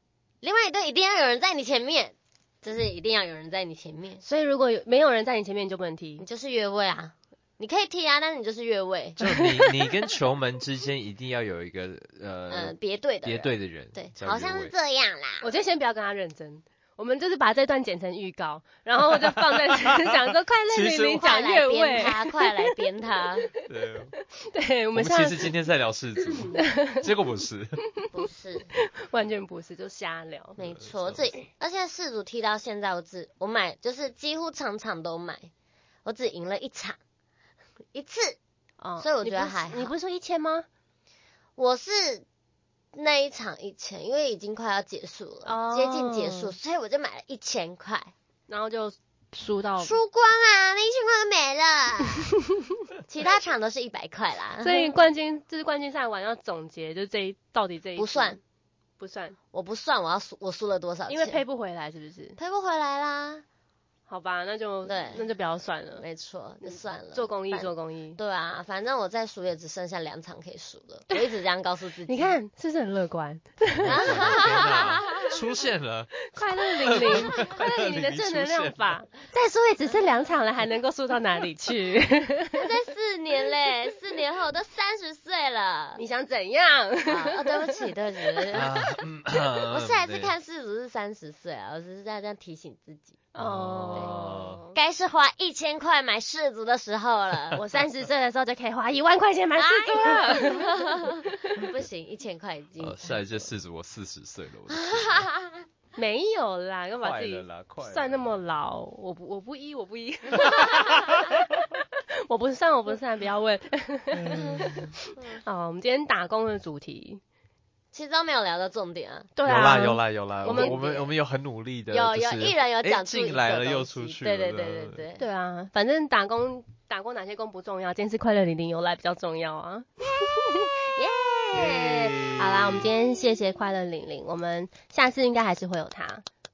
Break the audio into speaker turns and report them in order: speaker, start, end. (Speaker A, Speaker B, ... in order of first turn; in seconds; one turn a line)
Speaker A: 0.4-4.2
Speaker B: 4.2-6.2
Speaker A: 6.2-9.2
Speaker C: 9.2-14.7
Speaker B: 9.2-9.7
Speaker A: 12.5-15.5
Speaker B: 15.4-22.8
Speaker C: 19.1-21.2
Speaker A: 21.1-23.5
Speaker C: 23.6-24.1
Speaker B: 24.2-25.5
Speaker C: 24.9-27.8
Speaker B: 26.5-27.1
Speaker A: 28.1-28.7
Speaker B: 28.7-30.6
Speaker C: 30.6-31.3
Speaker A: 30.6-35.5
Speaker A: 36.0-37.0
Speaker A: 37.9-38.4
Speaker B: 38.8-40.6
Speaker A: 39.0-39.9
Speaker A: 41.6-42.2
Speaker A: 42.9-48.1
Speaker B: 45.4-46.5
Speaker B: 48.5-50.0
Speaker A: 49.8-52.3
Speaker A: 53.0-55.0
Speaker B: 54.6-58.4
Speaker A: 58.0-58.4
Speaker B: 59.0-59.4
Speaker A: 59.5-61.4
Speaker B: 61.1-62.4
Speaker A: 62.4-63.4
Speaker B: 64.1-66.0
Speaker A: 64.8-65.2
Speaker A: 66.0-72.3
Speaker B: 66.6-68.2
Speaker B: 71.1-71.4
Speaker B: 72.0-74.5
Speaker C: 73.8-78.9
Speaker A: 73.8-75.3
Speaker B: 76.3-82.7
Speaker A: 82.5-86.0
Speaker B: 86.0-87.9
Speaker A: 87.0-88.7
Speaker C: 88.5-90.3
Speaker A: 89.7-93.2
Speaker B: 93.3-94.8
Speaker C: 93.4-94.6
Speaker A: 93.9-97.6
Speaker B: 97.5-101.4
Speaker A: 99.6-103.4
Speaker C: 102.8-105.2
Speaker A: 104.7-105.6
Speaker B: 106.0-111.7
Speaker C: 107.0-108.3
Speaker C: 110.4-111.3
Speaker B: 112.3-117.2
Speaker C: 114.1-114.9
Speaker A: 117.9-119.3
Speaker B: 119.3-121.0
Speaker C: 119.4-125.0
Speaker A: 120.4-121.1
Speaker A: 121.9-125.2
Speaker B: 125.2-130.7
Speaker A: 130.9-132.2
Speaker C: 131.5-132.9
Speaker B: 132.3-136.2